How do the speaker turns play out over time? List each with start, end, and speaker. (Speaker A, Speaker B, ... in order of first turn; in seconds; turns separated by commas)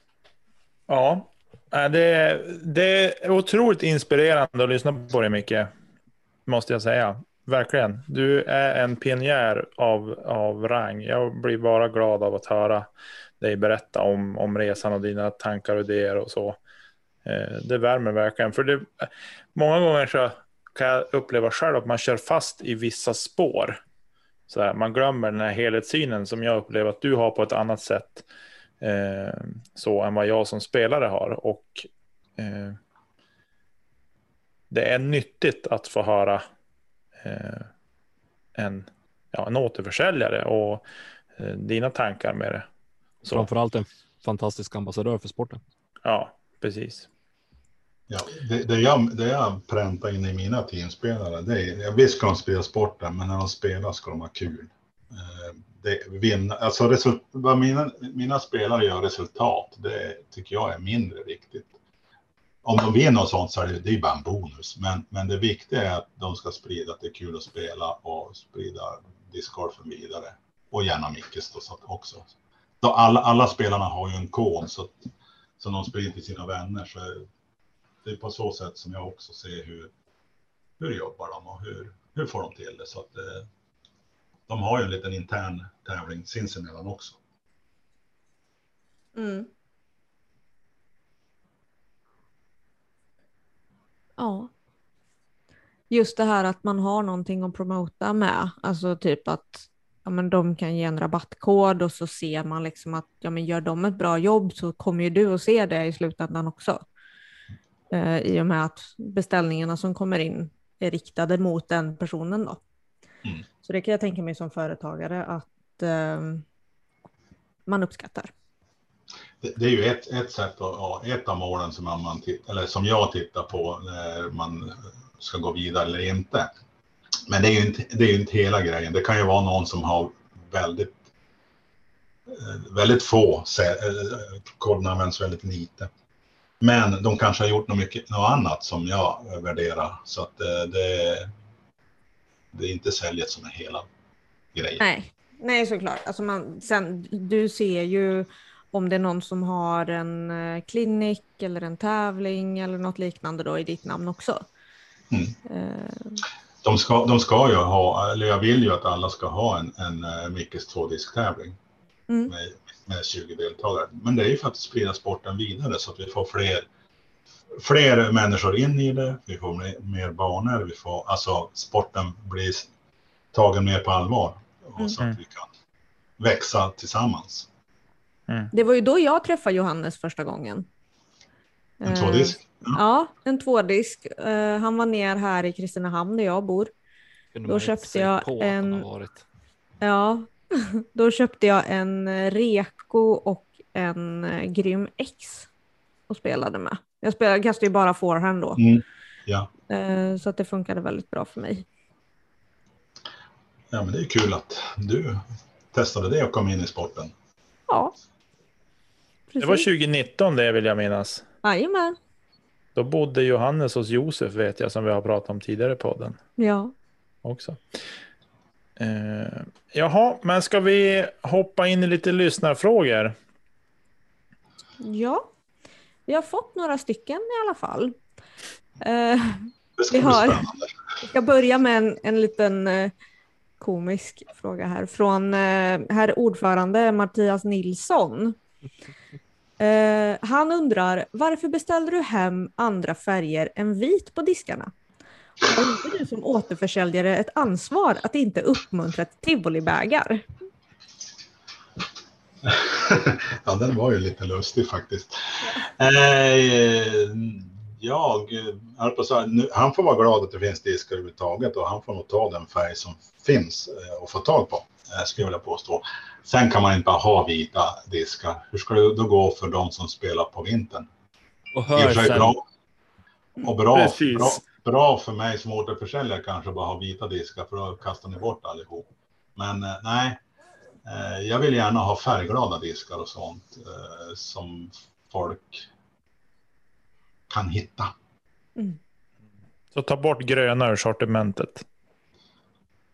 Speaker A: 0.9-5.7, Speaker A: 6.5-12.9, Speaker A: 13.4-16.6, Speaker A: 17.2-23.8, Speaker A: 24.5-28.2, Speaker A: 28.8-32.8, Speaker A: 34.7-36.4, Speaker A: 37.2-37.7, Speaker A: 38.6-40.8, Speaker A: 41.4-42.7, Speaker B: 43.3-45.6, Speaker A: 46.0-47.1, Speaker C: 48.1-61.7, Speaker C: 62.6-77.3, Speaker C: 78.0-79.9, Speaker C: 80.8-83.5, Speaker C: 84.5-87.2, Speaker D: 89.2-89.5, Speaker D: 94.2-94.5, Speaker D: 95.9-106.8, Speaker D: 107.9-112.6, Speaker D: 113.6-116.4, Speaker D: 117.7-118.3, Speaker C: 119.4-126.5, Speaker C: 127.3-131.0, Speaker C: 132.3-135.9, Speaker C: 136.6-141.3, Speaker C: 142.5-143.9, Speaker C: 144.5-144.8, Speaker D: 144.8-154.4, Speaker C: 155.1-155.4, Speaker D: 155.5-156.2, Speaker C: 156.6-161.6, Speaker C: 162.3-166.7, Speaker C: 167.5-172.7, Speaker C: 173.3-175.5, Speaker C: 176.2-177.5, Speaker D: 178.5-180.7, Speaker D: 181.8-186.7, Speaker C: 181.8-182.8, Speaker B: 187.3-189.2, Speaker D: 187.5-188.8, Speaker D: 189.8-195.5, Speaker D: 196.1-198.6, Speaker C: 198.6-199.5, Speaker D: 199.7-201.7, Speaker C: 203.7-207.1, Speaker D: 207.7-207.9, Speaker D: 209.3-209.7, Speaker A: 209.4-211.2, Speaker D: 211.4-212.0, Speaker A: 212.8-216.2, Speaker D: 216.4-216.7, Speaker A: 217.2-217.6, Speaker A: 218.8-223.2, Speaker D: 224.8-225.2, Speaker D: 226.1-228.0, Speaker D: 228.8-230.4, Speaker C: 229.8-230.7, Speaker D: 231.0-232.9, Speaker D: 233.6-238.4, Speaker D: 239.6-244.7, Speaker D: 245.4-250.2, Speaker C: 252.4-270.9, Speaker B: 271.5-272.3, Speaker C: 271.7-272.4, Speaker C: 273.4-280.2, Speaker A: 273.7-274.4, Speaker C: 280.8-285.7, Speaker C: 287.3-287.9, Speaker A: 289.7-291.6